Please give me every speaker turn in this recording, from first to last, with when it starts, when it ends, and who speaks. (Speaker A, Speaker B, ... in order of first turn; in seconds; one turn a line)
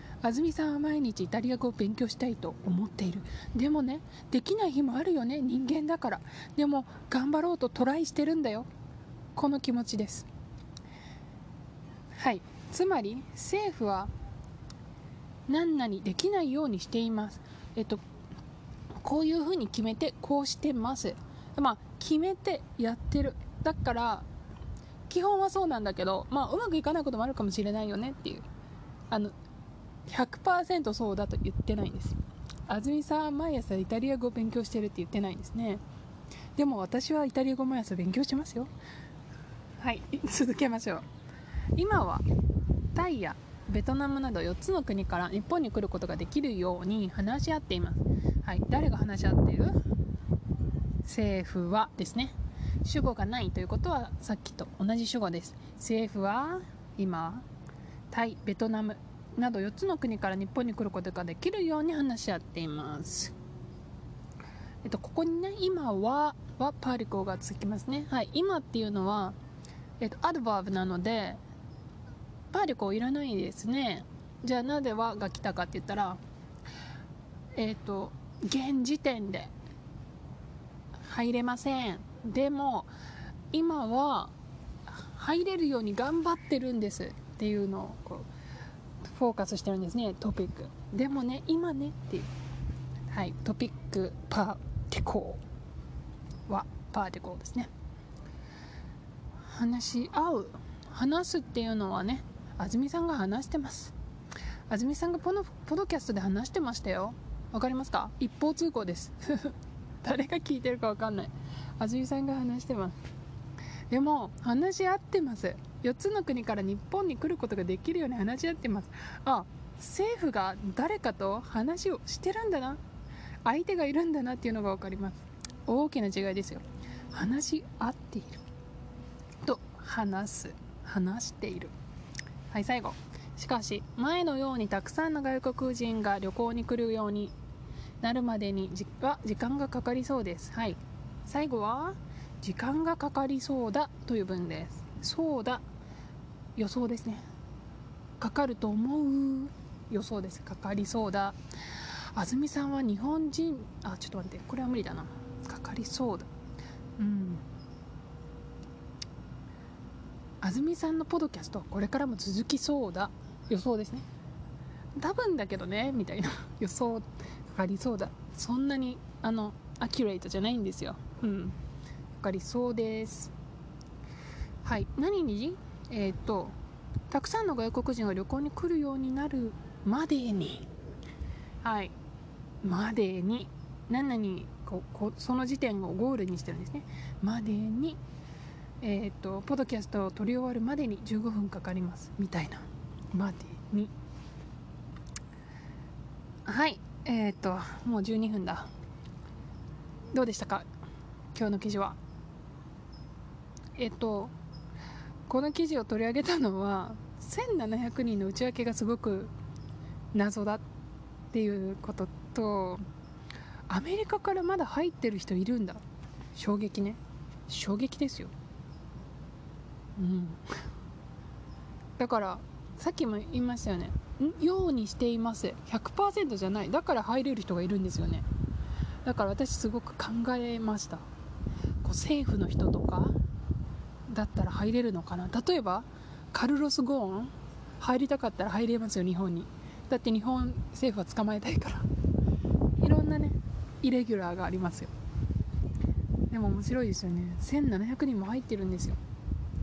Speaker A: 0.2-8.7
Speaker A: 9.3-10.3
Speaker A: 12.2-14.1
Speaker A: 15.5-18.0
Speaker A: 19.0-24.3
Speaker A: 25.1-28.5
Speaker A: 29.1-29.4
Speaker A: 30.1-35.8
Speaker A: 36.6-38.7
Speaker A: 39.8-41.1
Speaker A: 41.8-42.3
Speaker A: 42.9-49.8
Speaker A: 51.0-57.5
Speaker A: 58.1-63.3
Speaker A: 64.8-69.4
Speaker A: 70.0-71.4
Speaker A: 72.5-76.2
Speaker A: 77.6-79.5
Speaker A: 81.0-82.9
Speaker A: 83.5-84.3
Speaker A: 84.9-88.3
Speaker A: 89.0-92.3
Speaker A: 93.1-95.4
Speaker A: 96.5-97.7
Speaker A: 99.4-103.9
Speaker A: 104.7-113.0
Speaker A: 113.9-122.8
Speaker A: 123.5-128.4
Speaker A: 129.4-131.7
Speaker A: 132.5-137.3
Speaker A: 138.0-145.6
Speaker A: 146.6-147.3
Speaker A: 148.2-156.3
Speaker A: 157.0-157.4
Speaker A: 160.4-164.1
Speaker A: 165.0-171.6
Speaker A: 172.2-173.3
Speaker A: 174.6-176.6
Speaker A: 177.1-180.7
Speaker A: 181.6-181.9
Speaker A: 182.6-188.0
Speaker A: 188.8-193.9
Speaker A: 196.5-198.7
Speaker A: 200.1-200.7
Speaker A: 201.3-202.0
Speaker A: 203.8-204.3
Speaker A: 205.3-209.3
Speaker A: 210.1-210.7
Speaker A: 211.3-212.8
Speaker A: 213.7-215.8
Speaker A: 216.3-218.3
Speaker A: 220.0-220.4
Speaker A: 222.0-228.3
Speaker A: 229.0-231.1
Speaker A: 231.8-233.2
Speaker A: 234.1-241.9
Speaker A: 242.8-244.9
Speaker A: 246.3-249.0